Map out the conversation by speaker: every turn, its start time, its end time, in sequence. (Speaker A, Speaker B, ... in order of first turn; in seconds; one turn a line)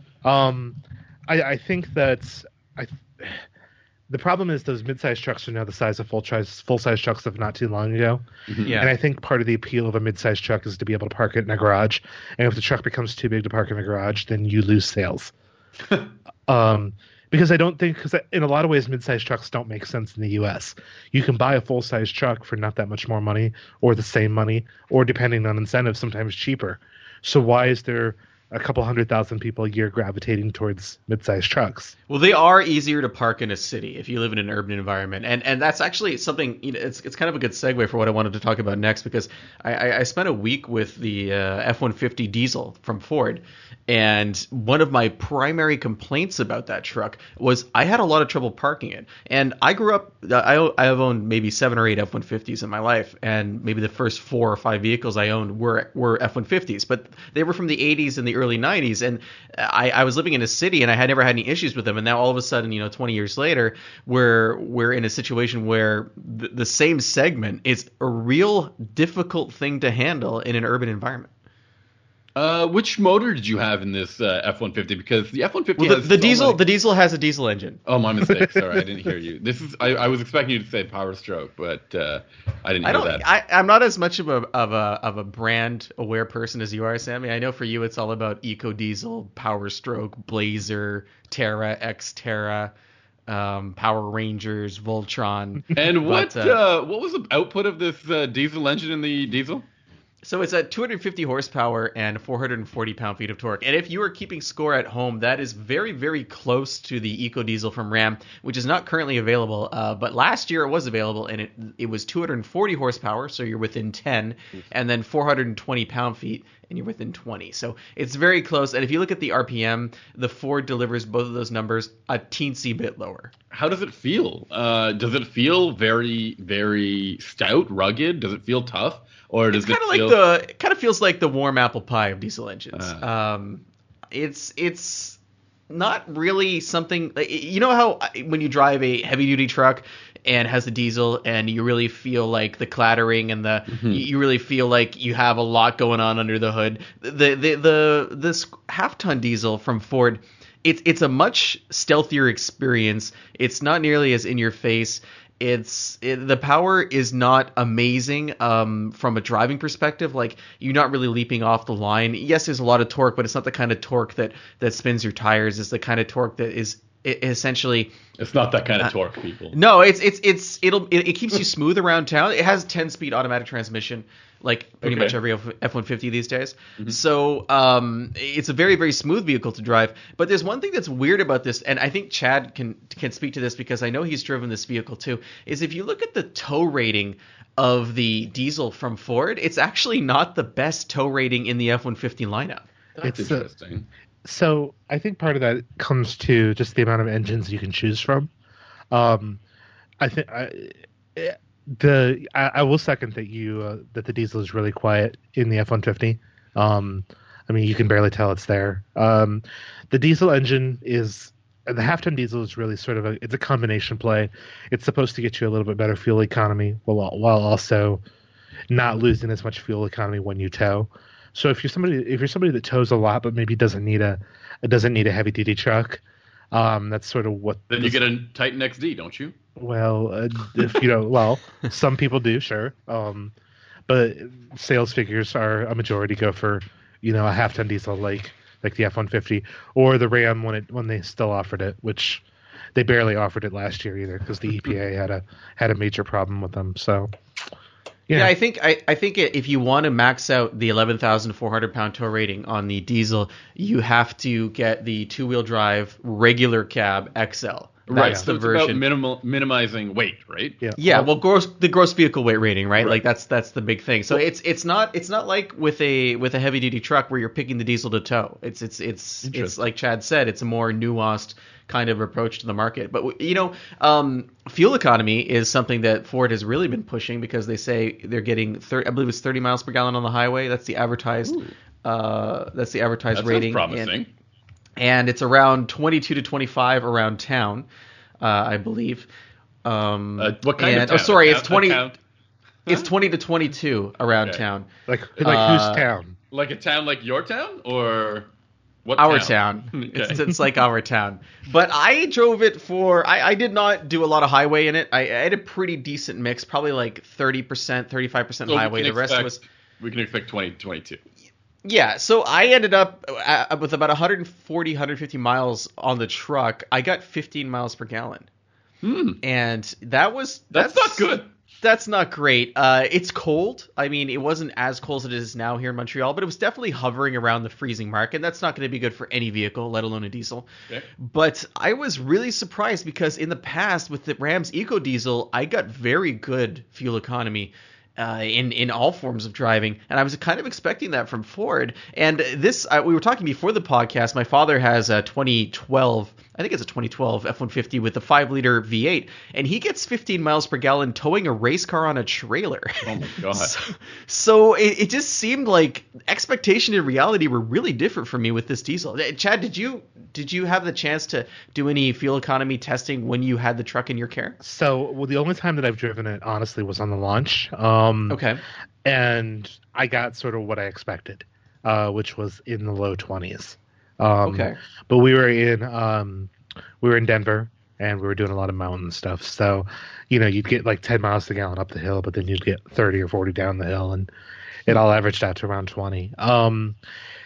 Speaker A: 0.2-3.5
Speaker A: 4.1-8.2
Speaker B: 8.5-8.8
Speaker C: 8.7-8.9
Speaker A: 8.8-15.3
Speaker A: 16.5-32.0
Speaker C: 32.1-71.3
Speaker B: 72.4-76.6
Speaker C: 75.8-77.8
Speaker B: 77.9-83.2
Speaker A: 78.2-78.8
Speaker C: 82.8-92.7
Speaker C: 93.3-96.6
Speaker B: 95.7-99.7
Speaker C: 100.2-123.3
Speaker B: 123.5-130.2
Speaker C: 129.5-135.2
Speaker B: 132.7-133.1
Speaker C: 135.7-167.9
Speaker B: 143.7-144.1
Speaker B: 168.2-169.6
Speaker C: 169.5-192.7
Speaker B: 174.8-175.2
Speaker B: 193.0-193.9
Speaker A: 193.0-193.5
Speaker A: 194.2-198.3
Speaker A: 198.9-199.4
Speaker A: 200.0-218.0
Speaker A: 218.7-228.0
Speaker B: 227.7-229.3
Speaker A: 229.6-233.3
Speaker A: 233.9-242.2
Speaker A: 242.8-247.1
Speaker C: 248.1-258.8
Speaker B: 257.9-260.6
Speaker A: 260.6-261.1
Speaker C: 260.8-283.9
Speaker B: 269.2-269.6
Speaker B: 281.3-281.5
Speaker B: 283.1-284.1
Speaker C: 284.8-287.7
Speaker C: 288.2-289.1
Speaker C: 289.6-291.9
Speaker B: 290.2-292.0
Speaker C: 292.7-294.7
Speaker A: 294.9-296.2
Speaker C: 295.2-295.9
Speaker B: 296.3-298.3
Speaker B: 298.9-300.2
Speaker C: 299.0-309.4
Speaker B: 308.5-311.0
Speaker C: 311.6-318.3
Speaker B: 318.8-319.2
Speaker C: 319.2-364.4
Speaker B: 320.5-321.3
Speaker B: 352.8-353.5
Speaker A: 364.4-368.2
Speaker C: 368.1-368.4
Speaker A: 368.9-384.1
Speaker C: 374.2-374.6
Speaker A: 384.7-386.8